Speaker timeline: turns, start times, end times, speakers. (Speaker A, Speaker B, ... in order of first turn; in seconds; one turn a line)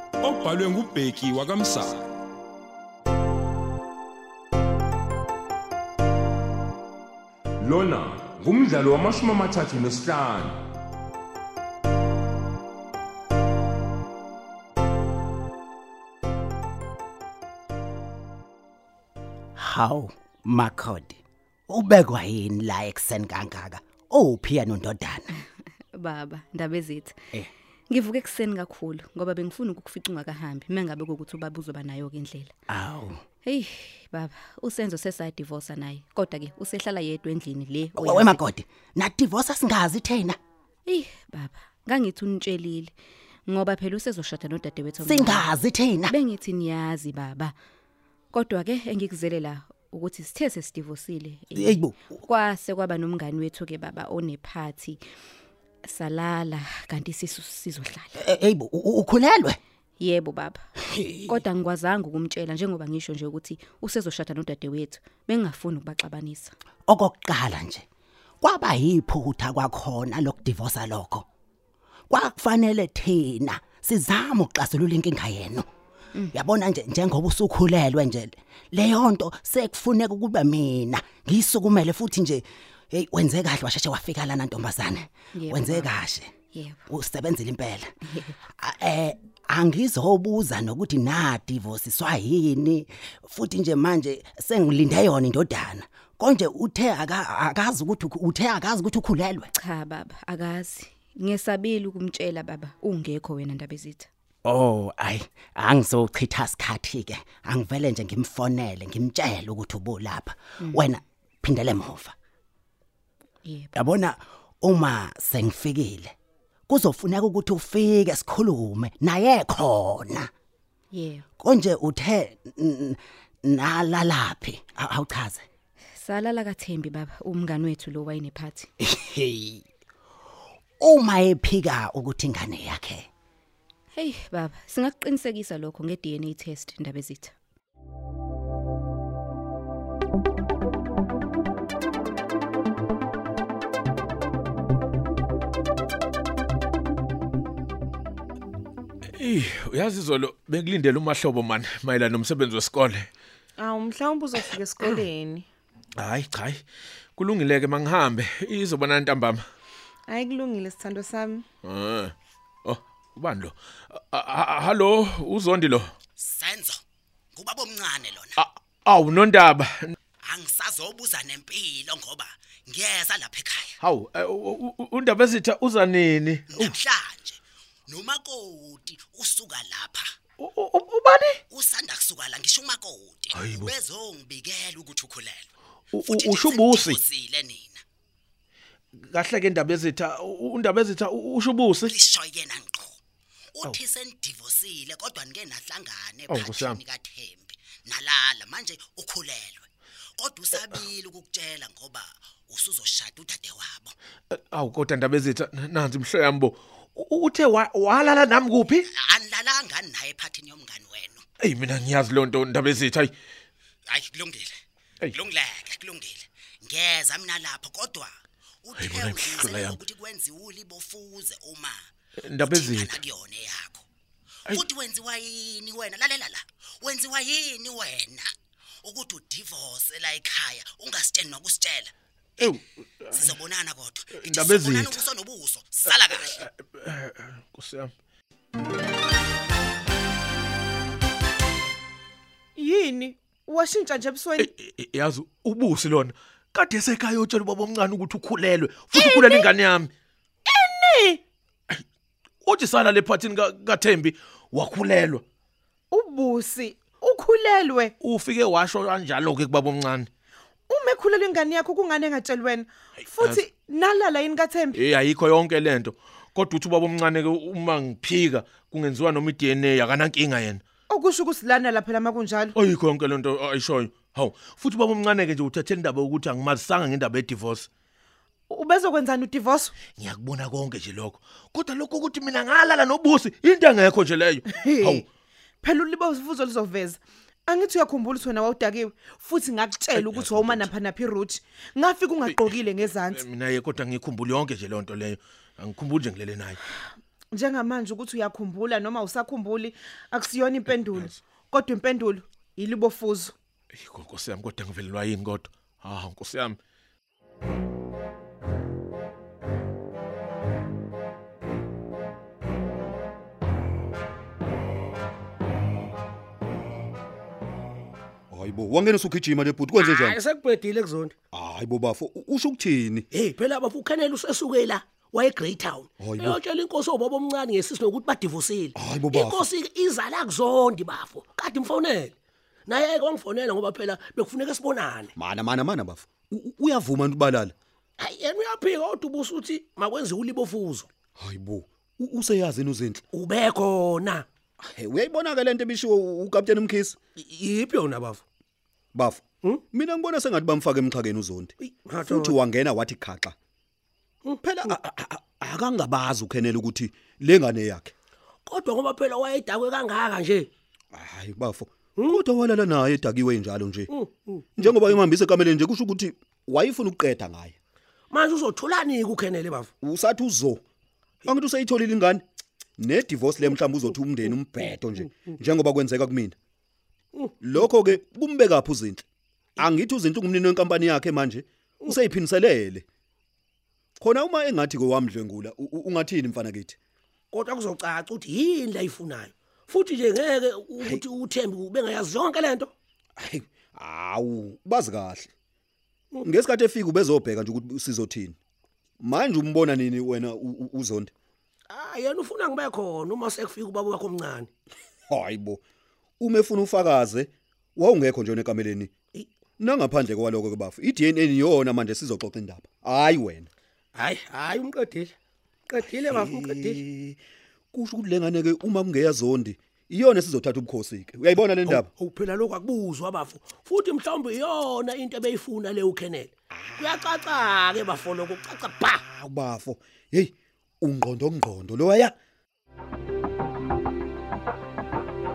Speaker A: 0.2-2.2
Speaker A: 7.6-10.6
Speaker B: 19.6-25.3
Speaker C: 25.9-27.1
Speaker C: 27.9-32.5
Speaker B: 32.7-33.2
Speaker C: 33.4-38.4
Speaker B: 38.0-40.4
Speaker C: 40.9-42.9
Speaker C: 43.5-45.5
Speaker B: 45.0-46.1
Speaker C: 46.1-47.5
Speaker C: 48.3-55.0
Speaker B: 51.5-51.9
Speaker C: 55.8-58.1
Speaker B: 58.2-59.6
Speaker C: 60.0-60.6
Speaker B: 61.0-61.4
Speaker C: 61.3-66.5
Speaker B: 66.9-67.8
Speaker B: 68.4-71.2
Speaker B: 72.1-75.7
Speaker B: 76.3-86.3
Speaker C: 85.3-85.9
Speaker C: 86.5-86.8
Speaker B: 86.9-87.9
Speaker B: 88.6-99.5
Speaker C: 99.6-104.1
Speaker B: 104.4-112.1
Speaker C: 113.4-113.7
Speaker B: 113.7-116.1
Speaker B: 116.7-120.3
Speaker C: 120.9-121.2
Speaker B: 121.4-125.4
Speaker C: 126.0-128.7
Speaker B: 128.9-129.6
Speaker B: 130.8-133.1
Speaker C: 133.9-137.3
Speaker D: 149.2-153.1
Speaker E: 153.6-155.5
Speaker D: 156.0-156.6
Speaker D: 157.2-159.4
Speaker E: 160.1-161.4
Speaker D: 161.6-162.1
Speaker D: 162.6-165.9
Speaker B: 166.2-166.8
Speaker B: 167.3-168.3
Speaker D: 168.4-169.9
Speaker B: 170.2-173.7
Speaker D: 173.8-176.8
Speaker B: 176.5-180.1
Speaker D: 180.4-181.4
Speaker B: 181.5-185.5
Speaker D: 183.3-183.7
Speaker D: 185.9-187.0
Speaker B: 186.0-187.8
Speaker D: 189.0-191.9
Speaker B: 191.8-193.0
Speaker B: 193.6-203.9
Speaker D: 196.3-196.8
Speaker D: 204.3-208.8
Speaker B: 208.9-211.2
Speaker D: 211.4-213.1
Speaker B: 213.9-214.6
Speaker B: 215.1-218.1
Speaker B: 218.6-221.8
Speaker D: 218.8-219.8
Speaker D: 222.2-223.0
Speaker B: 222.3-223.8
Speaker B: 224.5-228.3
Speaker B: 228.8-232.5
Speaker D: 232.4-233.4
Speaker B: 233.1-236.4
Speaker D: 234.1-235.0
Speaker D: 235.9-237.9
Speaker E: 242.6-244.5
Speaker D: 244.4-249.9
Speaker E: 248.9-249.5
Speaker E: 250.4-251.2
Speaker D: 252.4-255.2
Speaker E: 255.9-257.9
Speaker D: 258.0-260.1
Speaker E: 260.7-264.8
Speaker D: 263.1-263.4
Speaker D: 264.7-270.6
Speaker E: 270.9-272.5
Speaker D: 272.5-277.7
Speaker E: 278.5-279.7
Speaker D: 280.0-285.1
Speaker E: 284.5-285.0
Speaker E: 285.6-293.2
Speaker D: 289.9-290.7
Speaker D: 292.2-296.6
Speaker E: 297.3-303.3
Speaker D: 300.7-301.1
Speaker D: 303.8-306.6
Speaker F: 318.3-320.2
Speaker G: 319.7-321.1
Speaker F: 321.3-323.0
Speaker G: 323.1-332.1
Speaker F: 326.0-326.4
Speaker F: 328.8-329.5
Speaker G: 332.7-335.1
Speaker F: 335.2-337.5
Speaker G: 338.0-340.9
Speaker F: 341.2-343.0
Speaker G: 343.1-344.2
Speaker F: 344.6-346.9
Speaker G: 347.2-348.2
Speaker F: 348.9-351.5
Speaker G: 351.6-352.4
Speaker F: 352.0-353.3
Speaker G: 354.2-354.8
Speaker F: 354.4-357.9
Speaker G: 358.4-360.5
Speaker F: 360.9-363.9
Speaker G: 363.9-364.8
Speaker F: 364.6-367.5
Speaker G: 368.1-369.7
Speaker F: 369.8-370.6
Speaker F: 371.2-372.2
Speaker F: 372.8-376.3
Speaker F: 377.4-379.0
Speaker F: 379.6-382.8
Speaker F: 384.0-386.8
Speaker G: 387.3-392.7
Speaker F: 393.2-395.3
Speaker F: 396.2-398.4
Speaker F: 399.0-401.1
Speaker G: 401.7-404.5
Speaker F: 405.1-405.6
Speaker F: 406.2-408.9
Speaker F: 409.6-413.5
Speaker G: 413.9-415.1
Speaker G: 415.7-416.8
Speaker F: 416.1-417.2
Speaker F: 417.7-421.9
Speaker G: 421.6-429.0
Speaker F: 429.0-432.1